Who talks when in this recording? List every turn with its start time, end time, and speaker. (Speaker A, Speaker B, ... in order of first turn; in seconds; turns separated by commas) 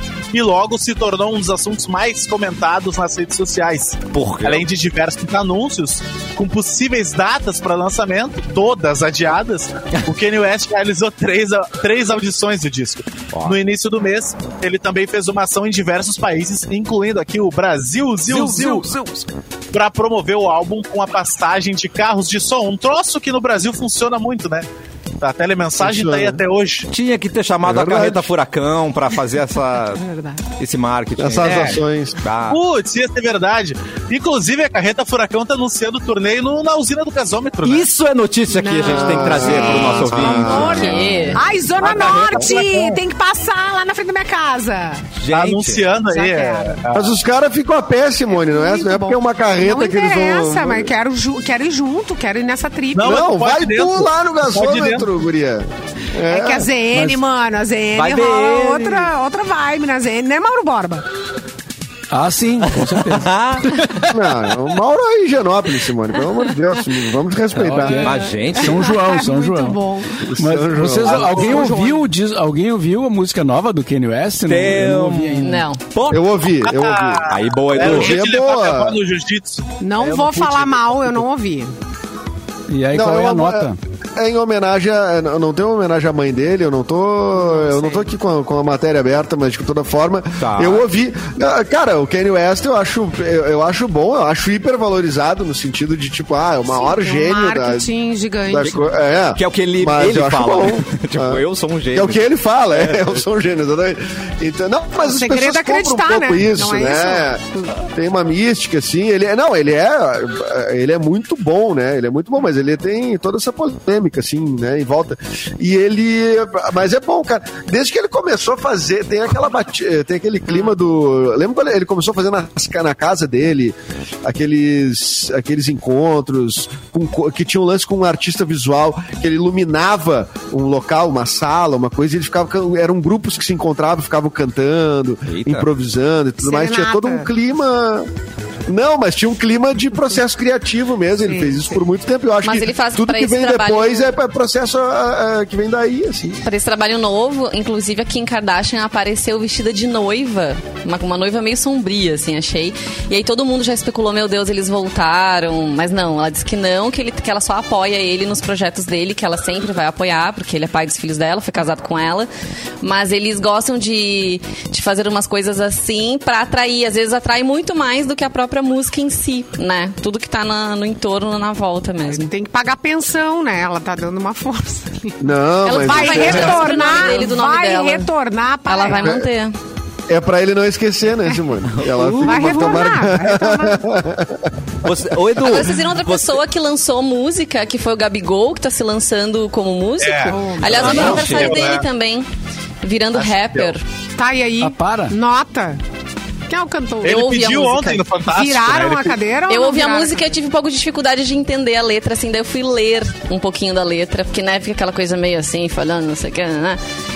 Speaker A: 0.3-18.9, Speaker B: 4.1-4.7, Speaker B: 13.3-13.6, Speaker C: 18.3-18.8, Speaker B: 18.3-19.2, Speaker A: 19.7-24.7, Speaker A: 25.2-26.9, Speaker D: 25.8-26.4, Speaker B: 26.9-30.0, Speaker D: 27.6-28.3, Speaker E: 30.0-30.4, Speaker B: 30.6-32.6, Speaker D: 31.2-32.2, Speaker A: 31.4-31.8, Speaker A: 32.5-37.9, Speaker B: 37.6-41.4, Speaker E: 38.5-45.1, Speaker D: 38.8-41.3, Speaker F: 40.5-41.4, Speaker A: 41.8-43.0, Speaker B: 45.2-45.9, Speaker A: 45.3-47.1, Speaker E: 46.1-46.8, Speaker D: 46.9-50.9, Speaker E: 48.3-53.2, Speaker A: 53.0-55.1, Speaker D: 53.0-56.7, Speaker E: 56.3-61.1, Speaker C: 56.9-57.2, Speaker B: 57.9-59.1, Speaker C: 62.1-64.0, Speaker B: 62.6-64.1, Speaker D: 64.1-68.1, Speaker C: 67.5-75.7, Speaker E: 67.8-70.3, Speaker B: 68.0-69.0, Speaker D: 70.3-71.7, Speaker E: 71.0-72.1, Speaker B: 74.5-76.2, Speaker F: 75.4-75.8, Speaker D: 76.1-79.0, Speaker A: 76.6-80.8, Speaker B: 77.3-78.2, Speaker E: 79.8-81.7, Speaker C: 82.7-83.8, Speaker D: 82.9-97.9, Speaker E: 87.3-88.1, Speaker B: 90.4-90.8, Speaker E: 96.7-98.9, Speaker D: 98.5-138.1, Speaker B: 99.3-103.2, Speaker E: 105.0-107.7, Speaker B: 135.3-135.7, Speaker E: 136.4-137.3, Speaker D: 138.7-146.4, Speaker E: 141.2-141.8, Speaker F: 142.4-144.1, Speaker F: 146.4-162.3, Speaker F: 162.8-172.3, Speaker E: 172.1-175.2, Speaker D: 175.2-176.9, Speaker F: 175.6-178.1, Speaker E: 175.7-179.2, Speaker F: 178.7-179.6, Speaker D: 179.0-179.3, Speaker D: 180.1-184.5, Speaker B: 181.7-182.6, Speaker E: 182.2-183.9, Speaker B: 184.8-186.4, Speaker F: 185.4-192.3, Speaker A: 190.0-191.9, Speaker E: 190.3-191.3, Speaker B: 190.7-191.8, Speaker F: 192.8-193.8, Speaker A: 193.1-193.8, Speaker E: 194.2-195.8, Speaker C: 194.6-195.2, Speaker E: 196.5-197.3, Speaker A: 197.0-199.2, Speaker F: 197.0-198.1, Speaker E: 198.3-200.4, Speaker F: 199.5-206.8